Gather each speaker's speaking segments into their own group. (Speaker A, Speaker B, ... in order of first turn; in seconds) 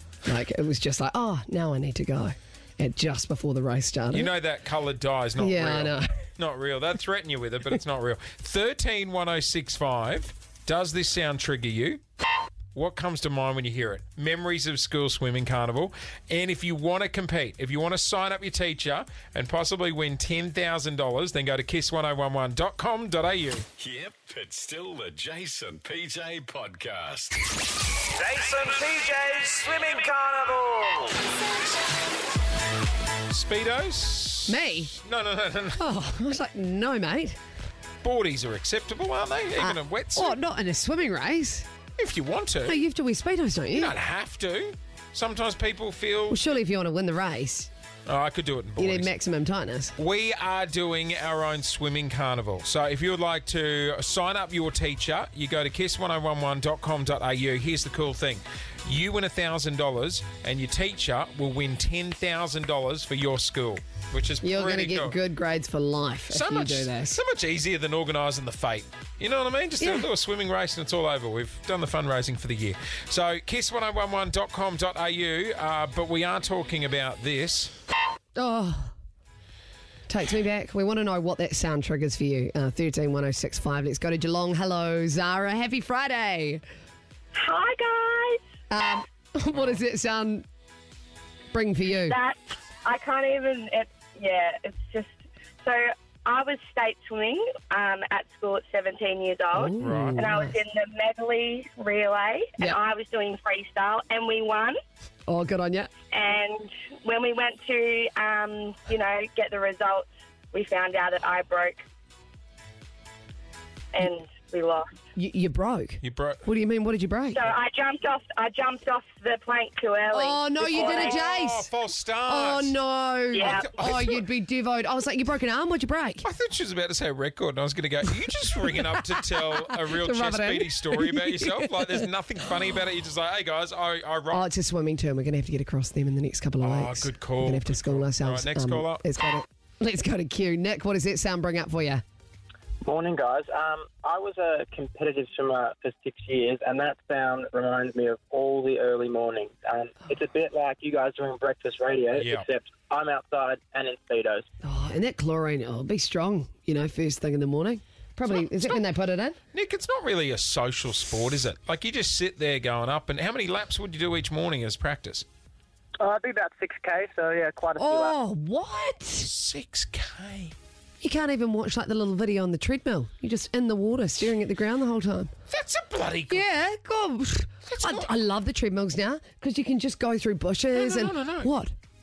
Speaker A: 0.2-4.3, 5.4-6.1, 34.5-34.9, 35.8-37.4, 39.6-41.7, 42.6-43.9, 46.3-47.7, 48.8-49.9, 64.4-67.2, 69.8-70.1, 78.3-78.9, 80.1-86.6, 88.7-90.4, 91.5-92.2, 99.5-100.6, 105.3-105.9, 115.1-117.4, 120.1-121.7, 122.2-126.2, 129.5-132.0, 134.3-142.0, 154.6-159.4, 167.8-169.3, 171.0-175.3, 176.3-181.7
Speaker B: 4.1-12.0, 12.7-23.6, 28.3-31.0, 33.3-35.9, 38.0-40.4, 42.0-42.8, 43.7-46.4, 48.0-49.1, 50.0-65.2, 66.3-77.7, 99.8-100.3, 116.0-116.4, 120.6-122.8, 123.4-124.2, 126.2-134.5, 136.6-139.0, 152.1-152.4, 158.4-158.8, 159.5-165.2, 169.2-170.5, 175.5-176.5, 177.6-178.1, 180.7-181.5
Speaker C: 23.8-27.4
Speaker D: 87.3-88.4, 92.1-104.8, 106.1-111.8, 113.9-114.8, 117.3-121.2, 123.3-123.8
Speaker E: 142.8-154.4, 166.0-168.2